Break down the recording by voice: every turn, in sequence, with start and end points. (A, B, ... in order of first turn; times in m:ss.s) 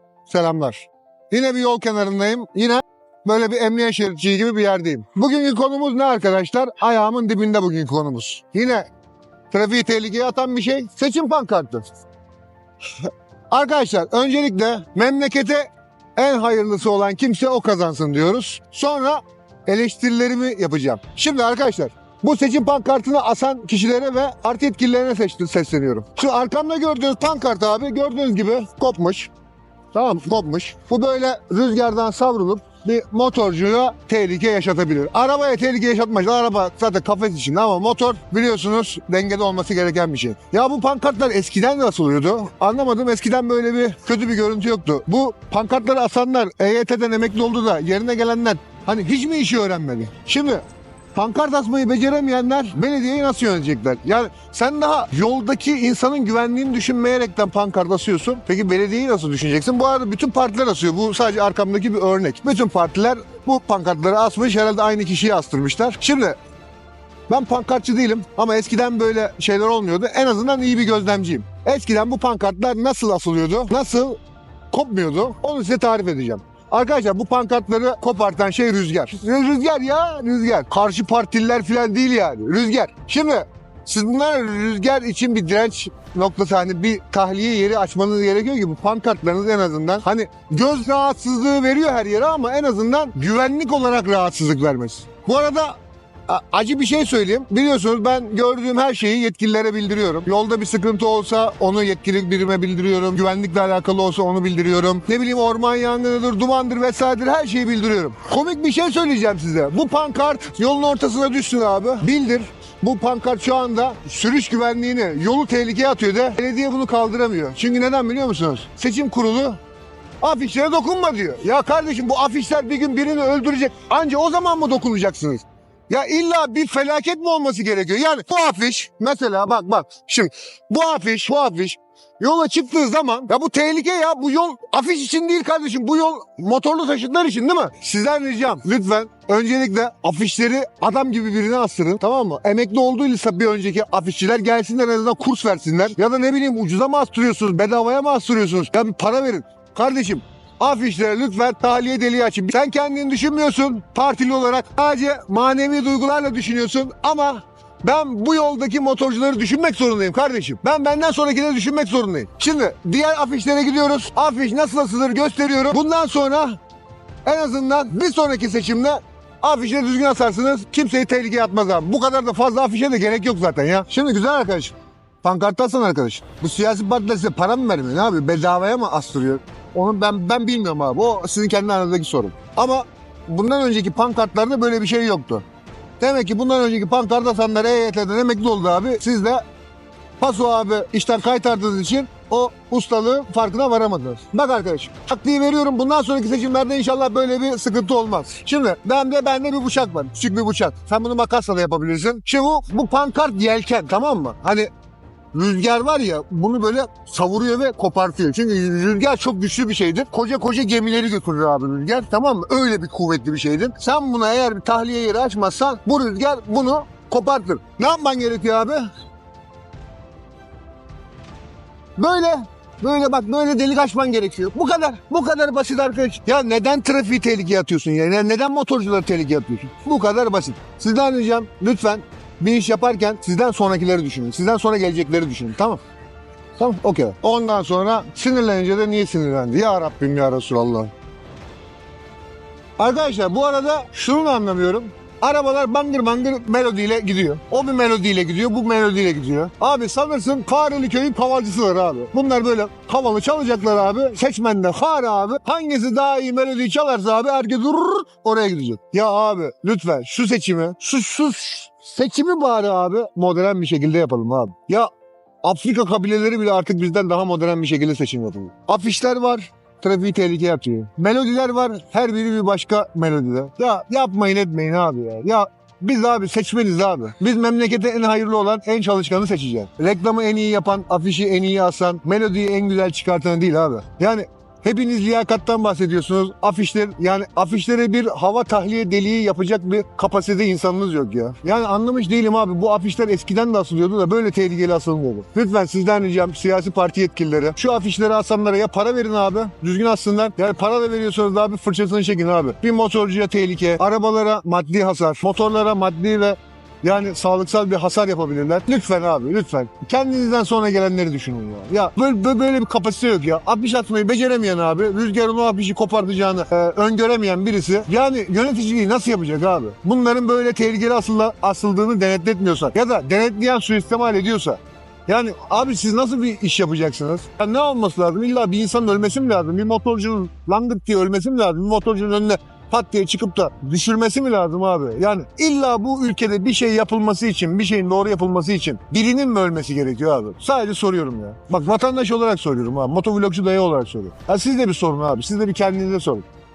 0:00.3-0:08.9 A
0:09.5-0:11.9 A
0:13.0-0:29.3 A
0:29.9-0:50.6 A
0:51.2-1:06.4 A
1:07.3-1:14.2 A
1:14.7-1:59.6 A
2:00.2-2:46.6 A
2:47.2-3:05.4 A
3:06.0-3:09.4 A
3:10.2-3:24.7 A
3:25.3-3:38.9 A
3:42.0-3:55.8 A
3:56.6-4:00.9 A
4:02.8-4:24.9 A
4:25.4-5:46.2 A